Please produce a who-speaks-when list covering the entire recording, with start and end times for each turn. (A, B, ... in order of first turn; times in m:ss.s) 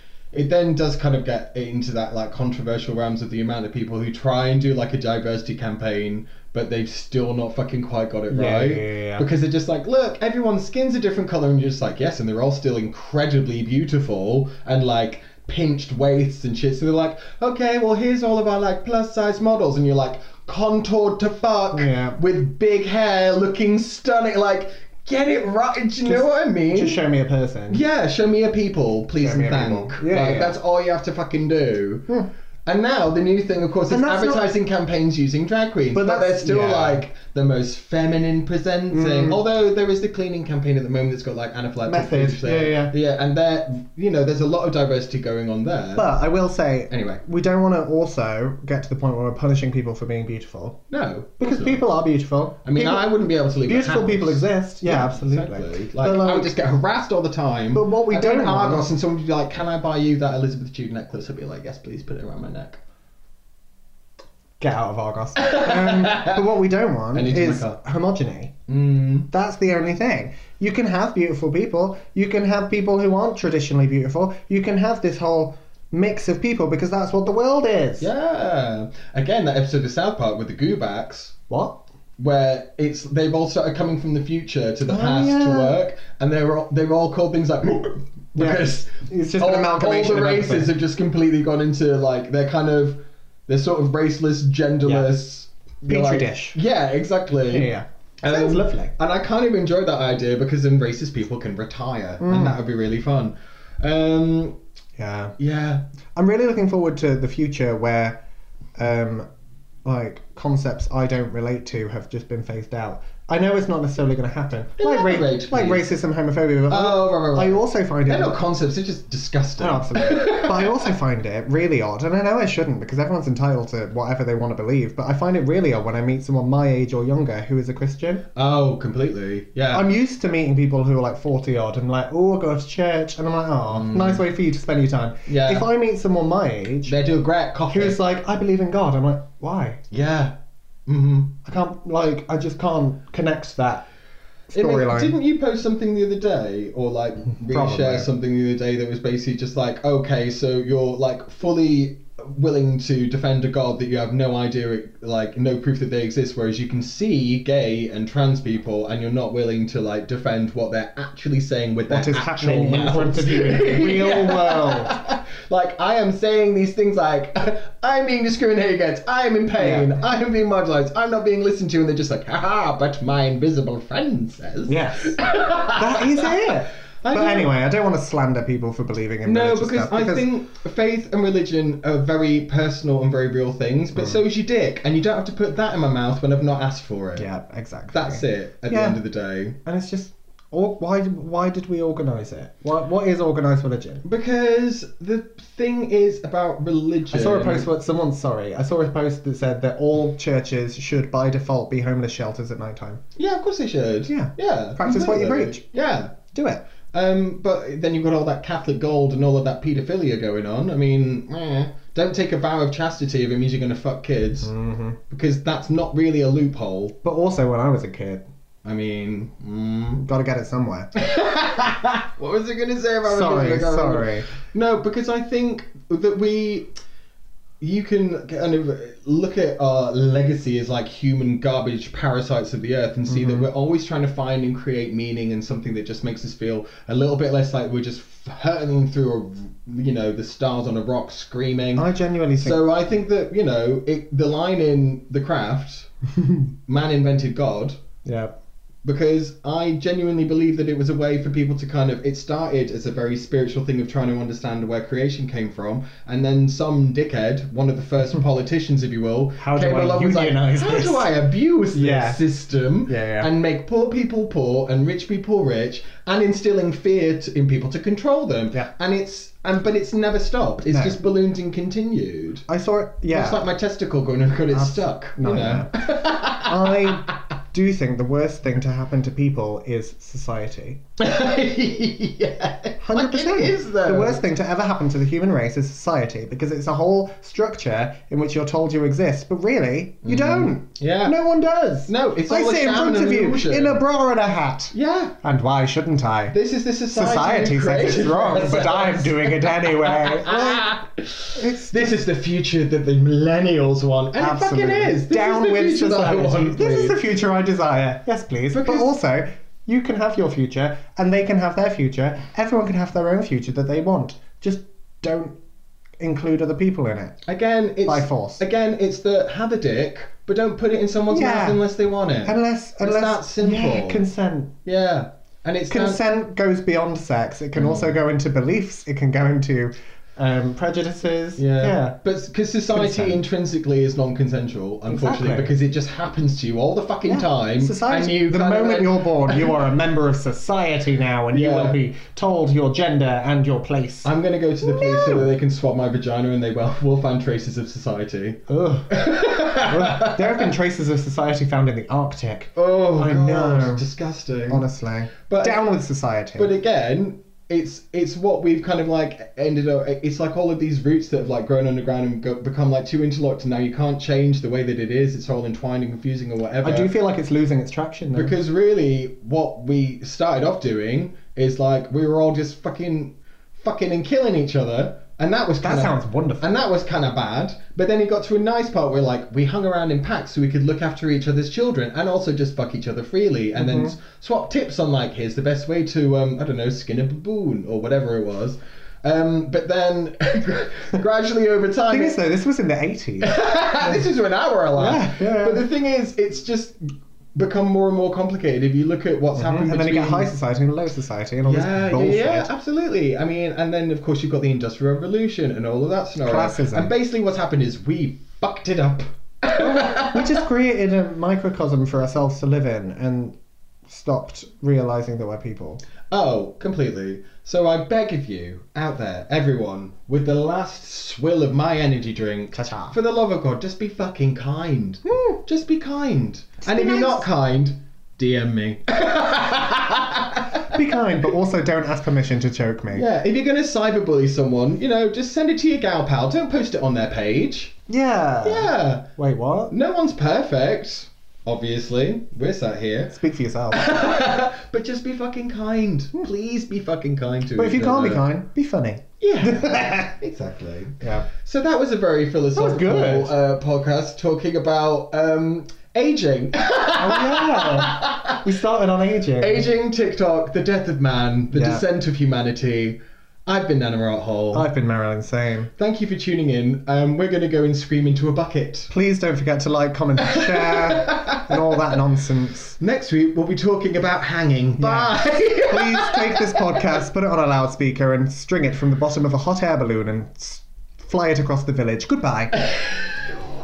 0:00.3-0:27.0 A
0:08.3-0:09.3 B
0:21.7-0:22.2 B
0:26.0-0:27.8 B
0:27.7-0:32.1 A
0:29.2-0:30.6 B
0:32.6-0:46.1 A
0:33.9-0:34.5 B
0:35.9-0:37.0 B
0:38.9-0:39.4 B
0:41.8-0:42.9 B
0:46.0-0:50.8 B
0:46.9-0:47.2 A
0:50.9-0:51.8 A
0:51.4-0:56.5 B
0:52.6-1:02.8 A
0:57.7-0:58.9 B
1:04.6-1:08.5 B
1:05.4-1:06.4 A
1:07.1-1:07.8 A
1:08.7-1:09.3 A
1:09.3-1:18.1 B
1:18.0-1:21.4 A
1:21.5-1:21.8 B
1:22.2-1:37.7 A
1:24.9-1:25.7 B
1:28.4-1:30.7 B
1:35.8-1:36.6 B
1:37.5-1:38.9 B
1:38.2-1:44.6 A
1:42.2-1:42.6 B
1:45.0-1:45.4 B
1:45.4-1:45.8 A
1:46.2-1:48.2 B
1:48.8-1:49.3 B
1:49.8-1:58.4 B
1:54.8-1:55.8 A
1:56.7-2:00.9 A
1:59.6-2:08.2 B
2:08.3-2:09.8 A
2:09.7-2:16.9 B
2:13.7-2:14.2 A
2:15.3-2:15.6 A
2:16.8-2:18.0 A
2:17.7-2:19.8 B
2:19.9-2:20.3 A
2:20.8-2:21.4 A
2:21.4-2:23.8 B
2:24.5-2:25.1 B
2:24.5-2:57.5 A
2:27.5-2:28.1 B
2:41.9-2:45.0 B
2:49.6-2:50.0 B
2:54.7-3:00.3 B
2:59.2-3:07.3 A
3:07.2-3:09.0 B
3:07.9-3:09.6 A
3:09.6-3:14.0 B
3:14.0-3:17.7 A
3:17.1-3:23.0 B
3:23.2-3:26.1 A
3:24.1-3:25.6 B
3:26.3-3:26.6 B
3:26.9-3:34.5 A
3:34.4-3:35.0 B
3:35.1-3:36.9 A
3:37.0-3:38.2 B
3:38.6-3:40.0 A
3:40.0-3:40.9 B
3:40.9-3:46.7 A
3:43.0-3:44.2 B
3:47.6-4:05.9 A
3:53.1-3:53.5 B
4:01.8-4:02.6 B
4:06.2-4:06.4 B
4:06.7-4:07.8 A
4:08.0-4:08.3 B
4:08.8-4:32.4 A
4:19.4-4:21.1 B
4:21.7-4:22.2 B
4:22.9-4:23.3 B
4:30.7-4:31.0 B
4:32.5-4:33.4 B
4:33.1-4:37.1 A
4:34.5-4:40.8 B
4:41.0-4:44.2 A
4:42.8-4:56.4 B
4:50.0-4:51.2 A
4:51.9-4:53.8 A
4:54.7-4:55.1 A
4:56.3-5:07.0 A
4:56.9-5:00.8 B
5:01.3-5:02.0 B
5:04.2-5:15.4 B
5:08.5-5:08.9 A
5:16.0-5:17.2 B
5:17.2-5:24.0 A
5:17.8-5:18.4 B
5:21.1-5:21.6 B
5:22.2-5:24.5 B
5:24.6-5:26.0 A
5:25.7-5:32.0 B
5:27.6-5:27.9 A
5:31.4-5:39.6 A
5:32.7-5:33.2 B
5:34.9-5:35.5 B
5:37.1-5:44.1 B
5:41.3-5:41.8 A
5:44.0-5:50.5 A
5:44.6-5:45.3 B
5:48.5-5:53.8 B
5:52.6-5:54.6 A
5:54.5-5:56.5 B
5:55.3-5:55.6 A
5:56.4-6:06.9 A
6:06.6-6:08.3 B
6:08.1-6:32.2 A
6:15.6-6:16.5 B
6:23.6-6:24.0 B
6:31.9-6:34.0 B
6:33.2-6:40.3 A
6:34.8-6:35.6 B
6:39.4-6:42.5 B
6:41.5-6:50.4 A
6:46.2-6:46.9 B
6:49.5-6:55.8 B
6:56.1-7:11.0 A
7:02.5-7:03.0 B
7:05.1-7:05.4 B
7:06.6-7:07.2 B
7:10.7-7:13.1 B
7:12.9-7:17.7 A
7:17.9-7:19.7 B
7:18.4-7:19.0 A
7:19.7-7:23.2 A
7:23.1-7:23.8 B
7:23.7-7:28.2 A
7:27.6-7:30.2 B
7:29.2-7:38.4 A
7:31.0-7:31.3 B
7:32.5-7:33.3 B
7:36.9-7:39.7 B
7:39.4-7:44.7 A
7:41.5-7:41.8 B
7:44.5-7:45.7 B
7:45.8-7:48.9 A
7:48.9-7:52.8 B
7:50.2-7:51.8 A
7:52.8-7:56.8 A
7:54.8-8:02.6 B
8:02.6-8:03.3 A